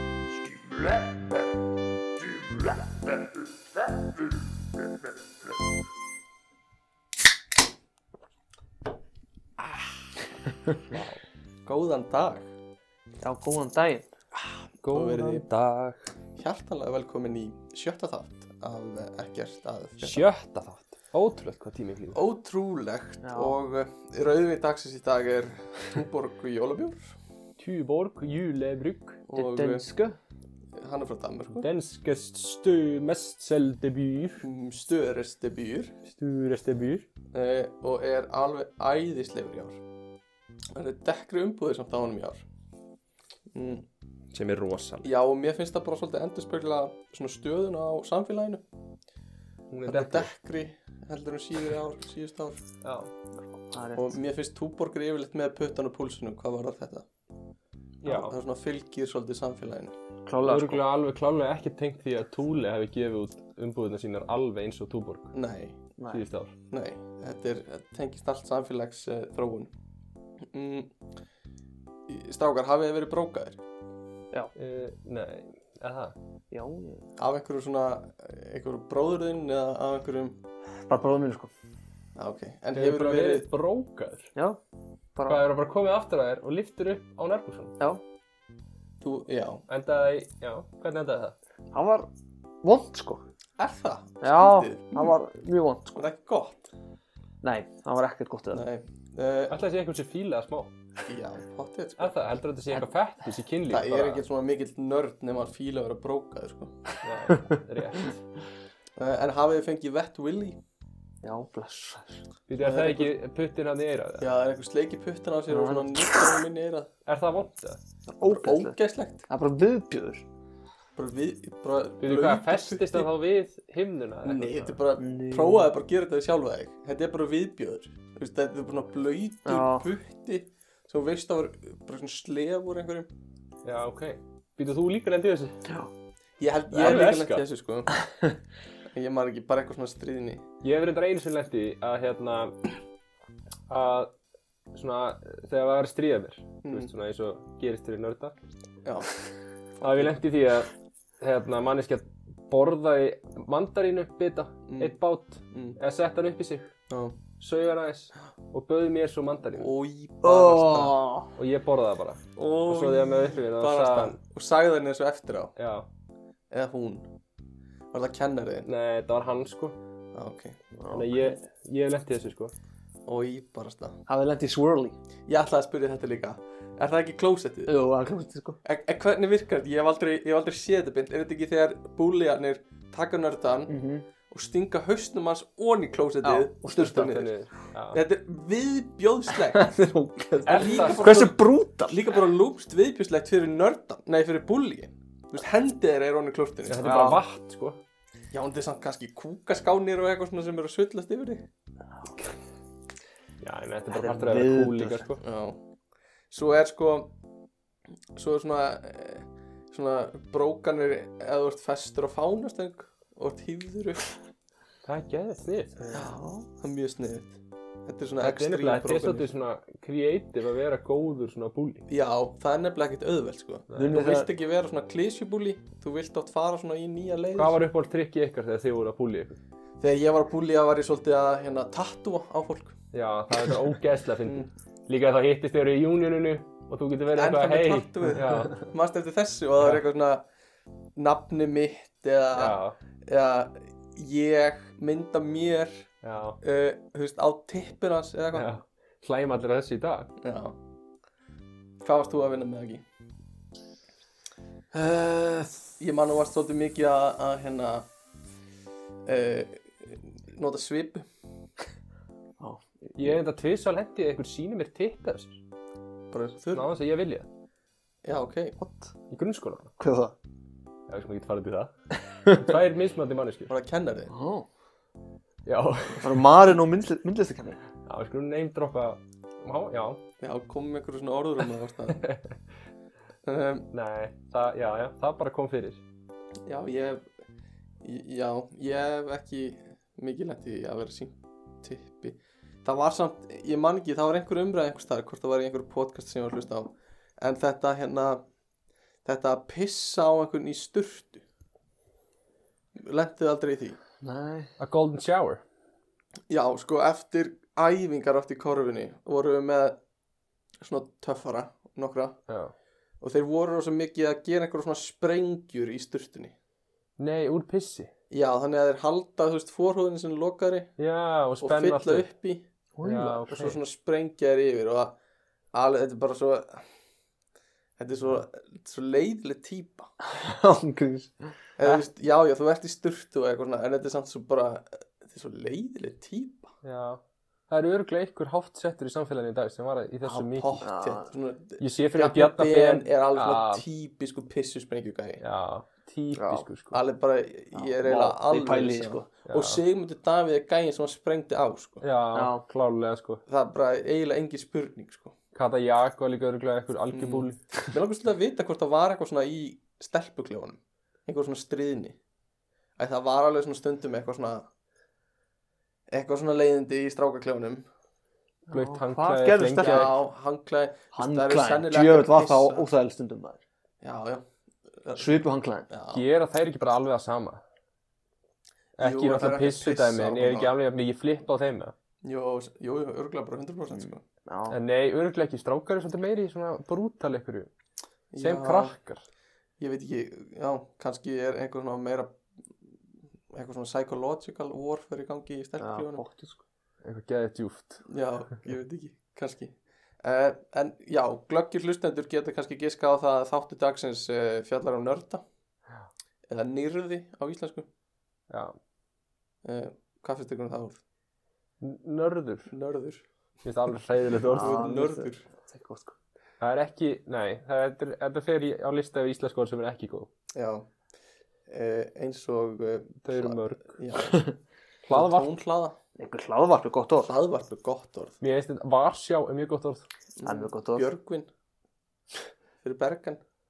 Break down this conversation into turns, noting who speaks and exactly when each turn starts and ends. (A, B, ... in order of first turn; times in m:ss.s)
0:00.5-0:01.4 A
0:02.2-0:03.3 A
0:10.9-0:11.2 B
0:11.6-0:12.5 A
0:13.2-0:14.1 C
0:14.5-0:15.4 A
0:14.8-0:16.0 B
0:16.4-0:20.2 A
0:20.0-0:22.2 B
0:22.1-0:27.2 A
0:23.2-0:23.6 C
0:27.6-0:29.2 B
0:29.3-0:29.8 A
0:29.3-0:30.2 C
0:30.8-0:31.7 A
0:31.5-0:34.4 B
0:34.4-0:35.9 A
0:36.1-0:37.0 B
0:37.3-0:39.8 A
0:40.7-0:42.4 A
0:43.5-0:43.8 A
0:44.3-0:45.1 B
0:45.0-0:48.6 A
0:49.7-0:50.3 B
0:49.9-0:52.6 A
0:52.8-0:53.1 B
0:53.6-0:54.2 C
0:54.0-0:57.0 A
0:58.0-0:58.4 B
0:58.0-0:59.9 A
1:00.2-1:00.8 C
1:00.4-1:05.3 B
1:05.3-1:05.8 A
1:06.0-1:06.2 C
1:06.1-1:06.5 B
1:06.7-1:09.7 A
1:10.5-1:10.9 A
1:12.1-1:13.6 A
1:14.6-1:16.1 B
1:16.5-1:17.1 C
1:17.2-1:20.4 A
1:20.9-1:21.5 C
1:22.2-1:23.5 A
1:22.7-1:24.3 B
1:25.1-1:25.4 C
1:25.3-1:27.8 B
1:29.0-1:29.6 A
1:29.7-1:31.4 B
1:31.7-1:32.1 C
1:32.6-1:33.2 C
1:33.6-1:35.2 A
1:34.2-1:36.0 C
1:36.0-1:36.7 A
1:37.4-1:38.6 C
1:38.5-1:39.6 A
1:39.5-1:40.7 B
1:41.0-1:42.1 A
1:42.0-1:44.2 B
1:43.7-1:46.9 A
1:47.0-1:48.2 B
1:49.0-1:50.6 A
1:51.2-1:52.2 C
1:52.5-1:54.2 B
1:52.6-1:53.1 A
1:54.2-1:56.9 A
1:55.5-1:56.4 C
1:57.0-1:57.8 B
1:58.1-1:58.8 C
1:58.2-1:59.2 A
1:59.3-2:00.3 C
2:01.0-2:03.1 A
2:02.0-2:04.8 B
2:04.2-2:13.1 A
2:05.0-2:05.7 C
2:09.4-2:09.9 C
2:13.6-2:15.6 B
2:16.4-2:18.0 A
2:16.7-2:17.4 B
2:18.1-2:18.3 C
2:18.9-2:20.4 A
2:20.6-2:22.6 B
2:23.7-2:24.1 B
2:24.7-2:28.3 B
2:26.6-2:26.9 A
2:28.8-2:29.1 A
2:29.8-2:30.2 A
2:29.8-2:36.7 B
2:34.7-2:34.9 A
2:35.5-2:35.8 A
2:36.9-2:37.2 A
2:37.4-2:39.7 B
2:39.6-2:41.0 A
2:40.2-2:41.3 C
2:41.4-2:44.2 B
2:42.4-2:45.5 A
2:45.6-2:45.9 B
2:46.5-2:47.1 A
2:47.9-2:48.7 A
2:48.6-2:49.8 B
2:50.1-2:50.6 A
2:50.8-2:51.4 C
2:50.9-2:52.5 B
2:53.0-2:54.0 A
2:54.1-2:55.0 C
2:55.3-2:57.7 A
2:57.7-2:58.6 C
2:58.6-3:03.7 A
3:03.7-3:04.1 C
3:04.3-3:07.3 A
3:06.2-3:07.2 C
3:06.8-3:08.0 B
3:07.9-3:09.8 A
3:09.4-3:12.2 C
3:10.4-3:17.0 A
3:10.4-3:11.2 B
3:16.7-3:17.8 B
3:16.8-3:17.2 C
3:18.3-3:21.5 A
3:23.4-3:25.2 B
3:23.9-3:25.0 C
3:25.2-3:25.6 A
3:26.3-3:27.1 A
3:28.2-3:34.1 A
3:34.8-3:36.0 B
3:35.9-3:36.4 C
3:35.9-3:39.3 A
3:38.2-3:41.8 B
3:41.9-3:47.6 A
3:43.7-3:44.3 C
3:47.4-3:49.4 B
3:49.8-3:52.8 A
3:52.9-3:58.6 B
3:57.1-4:00.2 A
4:01.0-4:05.9 A
4:02.3-4:02.8 B
4:06.0-4:06.4 B
4:06.4-4:08.5 A
4:08.3-4:10.1 B
4:10.2-4:10.6 A
4:11.8-4:12.8 A
4:14.7-4:17.9 A
4:19.0-4:21.0 A
4:22.4-4:23.2 C
4:23.0-4:25.4 B
4:26.1-4:26.7 A
4:26.5-4:27.3 B
4:28.0-4:28.6 A
4:28.6-4:28.9 C
4:29.1-4:29.7 B
4:29.8-4:30.1 C
4:30.9-4:31.7 B
4:32.2-4:33.5 B
4:33.5-4:34.1 A
4:34.1-4:34.5 C
4:35.4-4:36.2 B
4:36.0-4:37.6 C
4:37.8-4:40.0 B
4:40.2-4:42.0 A
4:42.0-4:42.3 B
4:43.2-4:43.7 A
4:43.7-4:45.8 B
4:46.4-4:47.0 A
4:47.8-4:58.2 A
4:59.0-5:01.2 A
5:02.8-5:03.8 A
5:04.0-5:04.5 C
5:04.6-5:05.4 B
5:06.3-5:09.8 A
5:10.6-5:12.2 A
5:12.3-5:12.5 B
5:13.0-5:16.3 A
5:17.0-5:17.9 B
5:18.1-5:20.7 A
5:20.8-5:22.0 B
5:21.4-5:22.4 A
5:22.7-5:23.6 C
5:22.8-5:23.6 B
5:23.3-5:25.0 A
5:25.5-5:26.6 A
5:27.8-5:29.9 A
5:30.0-5:31.8 C
5:31.6-5:36.5 A
5:36.6-5:40.7 B
5:40.0-5:45.2 A
5:40.6-5:41.1 C
5:41.6-5:43.6 B
5:45.2-5:46.8 B
5:46.1-5:46.5 C
5:46.7-5:51.8 A
5:47.5-5:49.1 C
5:49.3-5:49.6 B
5:51.8-5:53.2 B
5:52.1-5:52.4 C
5:53.3-5:55.1 A
5:55.3-5:57.4 B
5:56.9-6:02.0 A
6:02.8-6:04.5 A
6:05.9-6:07.6 A
6:08.5-6:10.0 C
6:08.5-6:09.9 B
6:09.6-6:12.6 A
6:10.9-6:13.4 C
6:13.8-6:14.2 A
6:14.8-6:16.0 A
6:15.0-6:15.7 C
6:15.9-6:17.4 B
6:18.8-6:21.7 B
6:18.8-6:20.5 A
6:22.0-6:24.0 A
6:23.7-6:24.6 C
6:24.5-6:27.5 B
6:28.1-6:28.8 A
6:28.2-6:29.0 B
6:29.6-6:32.2 A
6:33.3-6:36.0 A
6:35.6-6:36.4 C
6:36.8-6:37.8 B
6:37.9-6:45.2 A
6:46.3-6:47.7 A
6:48.3-6:48.5 B
6:49.4-6:50.8 A
6:51.6-6:52.5 B
6:52.5-6:53.0 A
6:53.4-6:54.6 B
6:54.3-6:56.0 C
6:54.3-6:55.2 A
6:56.4-7:00.1 B
7:00.3-7:00.7 A
7:01.5-7:04.3 A
7:03.0-7:03.7 B
7:04.0-7:04.3 C
7:04.8-7:05.3 B
7:04.9-7:05.8 A
7:06.0-7:07.1 C
7:07.0-7:08.2 A
7:08.2-7:09.9 B
7:10.2-7:11.3 A
7:10.2-7:10.9 C
7:12.6-7:13.2 A